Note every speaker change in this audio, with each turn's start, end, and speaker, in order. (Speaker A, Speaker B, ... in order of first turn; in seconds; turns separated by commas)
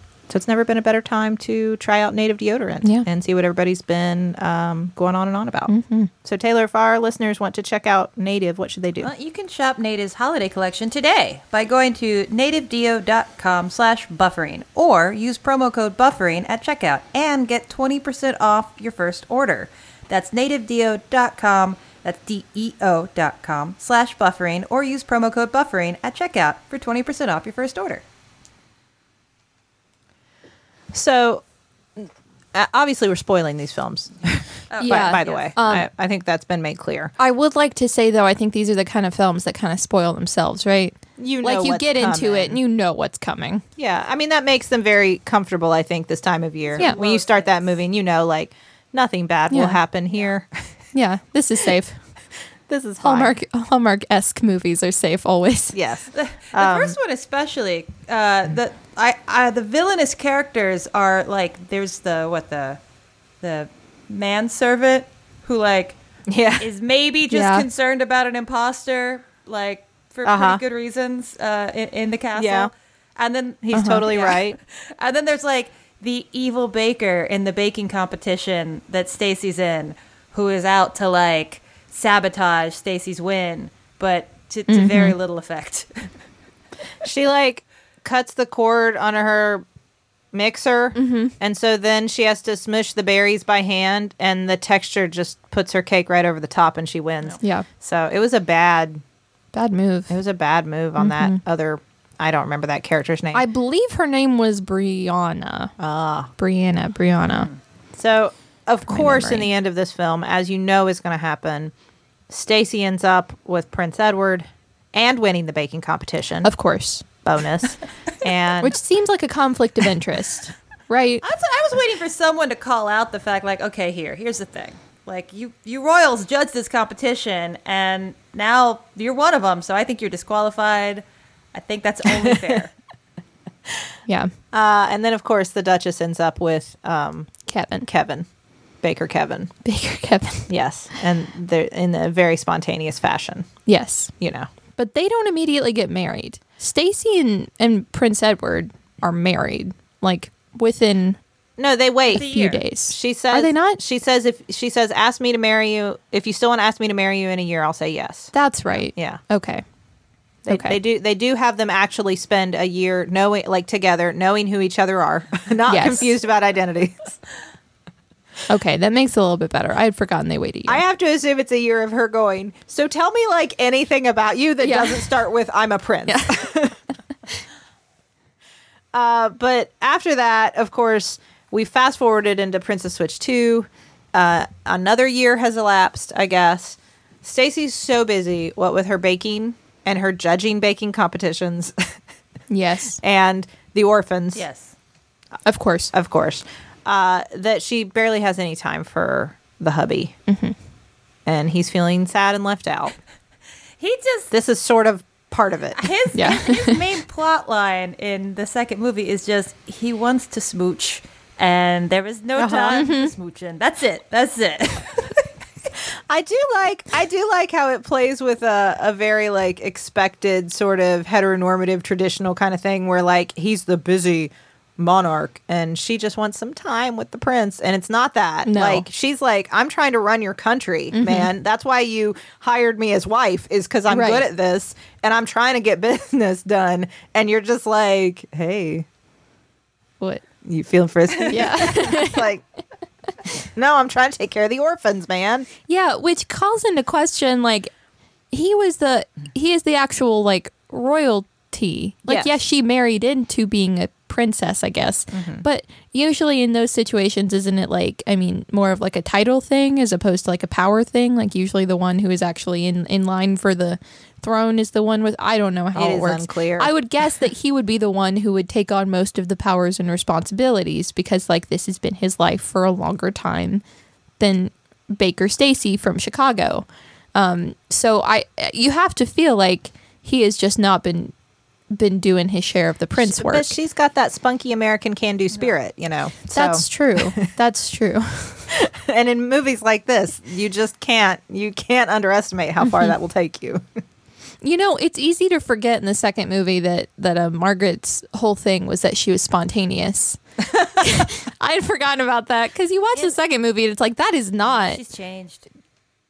Speaker A: 0.3-5.7, Speaker B: 5.7-6.1, Speaker A: 6.2-9.1, Speaker C: 9.0-28.0, Speaker A: 30.9-31.4, Speaker A: 32.0-37.1, Speaker C: 34.7-35.5, Speaker B: 34.8-35.9, Speaker B: 37.2-43.6, Speaker A: 41.2-42.6, Speaker A: 43.8-50.5, Speaker C: 46.7-47.7, Speaker B: 49.5-49.8, Speaker B: 50.9-52.0, Speaker A: 52.7-53.4, Speaker B: 53.0-55.8, Speaker A: 55.7-57.0, Speaker C: 56.1-62.8, Speaker C: 63.4-66.0, Speaker A: 66.3-66.7, Speaker C: 66.6-86.1, Speaker B: 67.3-67.7, Speaker A: 70.2-70.6, Speaker A: 72.3-72.7, Speaker A: 73.7-74.6, Speaker B: 73.7-74.0, Speaker B: 84.7-85.2, Speaker A: 87.0-89.7, Speaker A: 90.3-99.0, Speaker B: 91.0-91.3, Speaker B: 97.4-97.7, Speaker B: 99.5-100.2, Speaker A: 100.1-103.5, Speaker B: 101.0-101.4, Speaker B: 103.3-105.7, Speaker A: 105.8-106.3, Speaker B: 106.4-107.5, Speaker A: 108.0-111.7, Speaker B: 108.9-109.5, Speaker A: 112.3-116.5, Speaker B: 116.4-117.0, Speaker A: 117.2-118.8, Speaker B: 118.6-121.2, Speaker C: 121.2-132.7, Speaker A: 134.5-137.3, Speaker B: 137.5-137.9, Speaker A: 137.8-138.3, Speaker A: 138.8-139.5, Speaker B: 139.7-140.5, Speaker A: 140.5-143.5, Speaker B: 143.7-144.1, Speaker A: 144.2-144.5, Speaker B: 144.8-151.2, Speaker A: 151.6-152.3, Speaker B: 152.1-153.8, Speaker C: 152.1-152.6, Speaker A: 152.9-159.2, Speaker B: 158.3-159.6, Speaker A: 160.5-167.2, Speaker B: 160.5-160.8, Speaker B: 165.7-166.1, Speaker B: 168.5-170.8, Speaker A: 170.7-176.8, Speaker B: 174.6-175.1, Speaker B: 176.1-176.5, Speaker A: 178.9-191.8, Speaker B: 192.5-193.0, Speaker A: 193.0-194.5, Speaker C: 194.3-194.7, Speaker B: 195.5-195.9, Speaker A: 195.9-200.1, Speaker B: 200.3-200.6, Speaker A: 201.3-202.9, Speaker C: 203.8-204.3, Speaker A: 204.3-205.9, Speaker C: 205.8-215.3, Speaker B: 206.1-206.8, Speaker A: 212.4-212.8, Speaker B: 212.7-213.1, Speaker A: 216.1-238.9, Speaker B: 228.4-228.9, Speaker B: 230.9-231.3, Speaker B: 233.9-234.2, Speaker A: 240.4-242.4, Speaker B: 241.3-242.3, Speaker A: 243.3-245.5, Speaker B: 245.7-247.7, Speaker B: 248.3-273.6, Speaker A: 252.1-252.3, Speaker A: 255.1-255.4, Speaker A: 265.7-266.7, Speaker B: 274.2-281.1, Speaker B: 281.7-283.6, Speaker A: 283.0-287.2, Speaker B: 286.3-288.5, Speaker A: 288.5-293.6, Speaker B: 294.4-304.8, Speaker C: 304.4-305.5